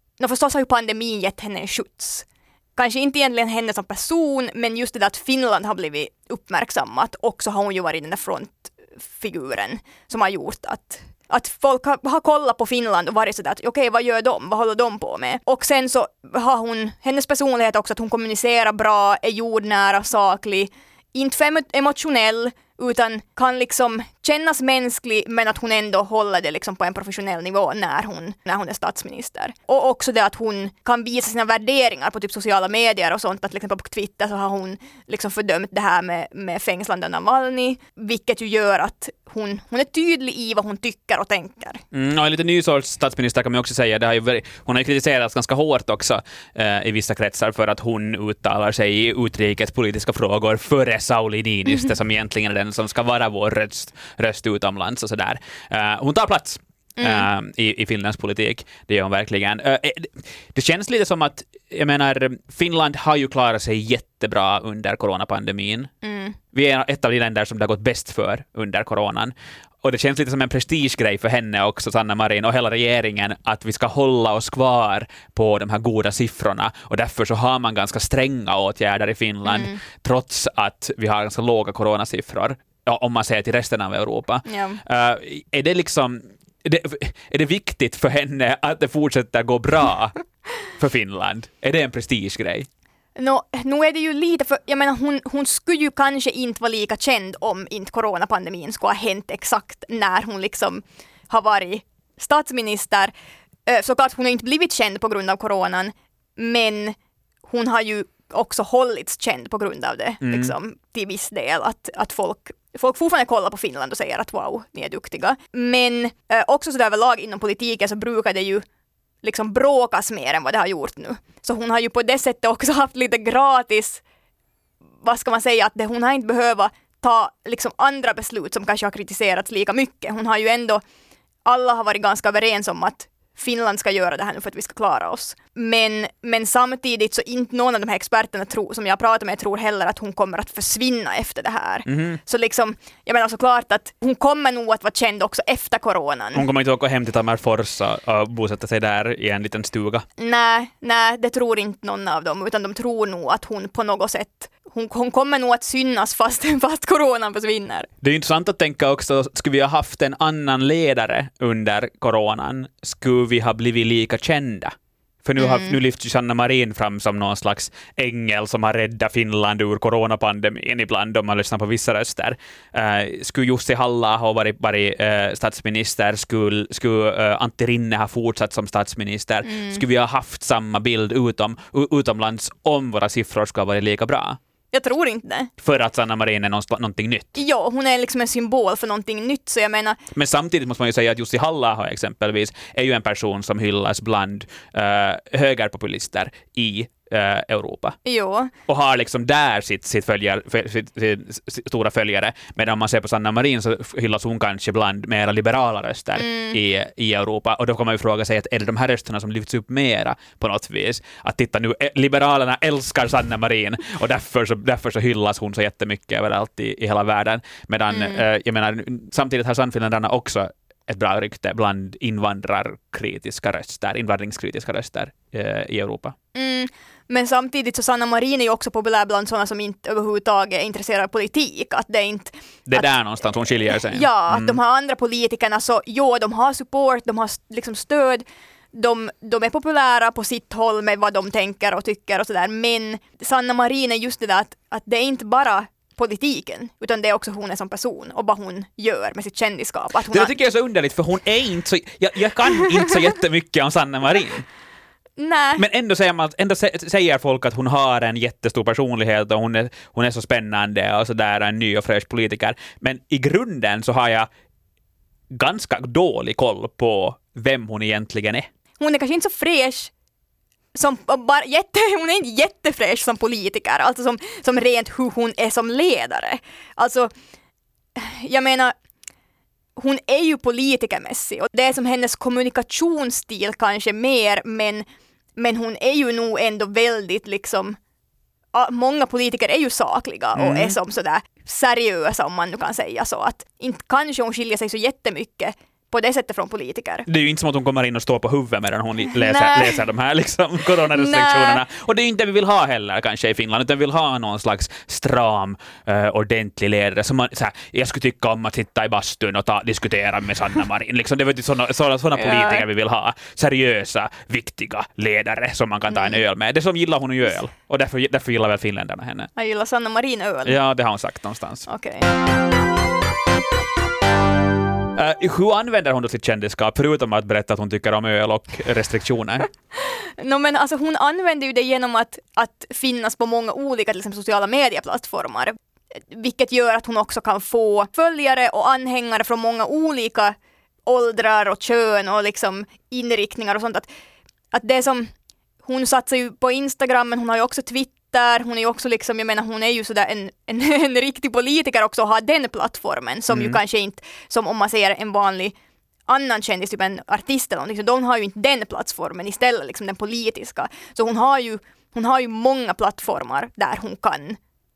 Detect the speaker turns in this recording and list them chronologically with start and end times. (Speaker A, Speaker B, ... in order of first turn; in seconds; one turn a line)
Speaker A: 0.2-41.8
Speaker B: 41.9-65.9
Speaker A: 57.0-57.3
Speaker A: 66.0-66.4
Speaker B: 66.5-92.7
Speaker A: 79.5-79.8
Speaker A: 84.5-84.8
Speaker A: 93.2-103.1
Speaker A: 103.7-118.6
Speaker B: 110.2-110.5
Speaker A: 119.2-124.0
Speaker A: 125.0-130.8
Speaker A: 131.4-146.4
Speaker B: 141.8-142.2
Speaker B: 146.3-150.0
Speaker A: 150.2-157.9
Speaker B: 158.0-184.4
Speaker A: 165.4-165.8
Speaker A: 179.4-179.8
Speaker A: 184.7-185.5
Speaker B: 185.6-187.4
Speaker A: 187.3-190.0
Speaker B: 190.1-198.0
Speaker A: 198.0-198.5
Speaker B: 198.7-226.1
Speaker A: 206.2-206.6
Speaker A: 217.9-218.2
Speaker A: 226.3-232.9
Speaker B: 232.7-234.6
Speaker A: 233.6-250.3
Speaker B: 250.1-254.4
Speaker A: 255.2-255.6
Speaker B: 255.6-264.3
Speaker B: 265.3-268.5
Speaker A: 268.8-269.9
Speaker A: 270.7-277.1
Speaker A: 277.9-278.7
Speaker A: 279.8-287.8
Speaker A: 288.5-297.1
Speaker B: 290.3-290.8
Speaker B: 297.1-319.3
Speaker A: 299.1-299.8
Speaker A: 300.9-301.6
Speaker A: 312.1-312.6
Speaker A: 315.9-316.2
Speaker A: 319.4-320.6
Speaker B: 320.4-321.6
Speaker A: 321.6-322.1
Speaker B: 324.9-329.5
Speaker A: 329.7-343.9
Speaker A: 344.5-345.1
Speaker A: 345.6-355.5
Speaker B: 353.3-353.6
Speaker A: 356.1-364.4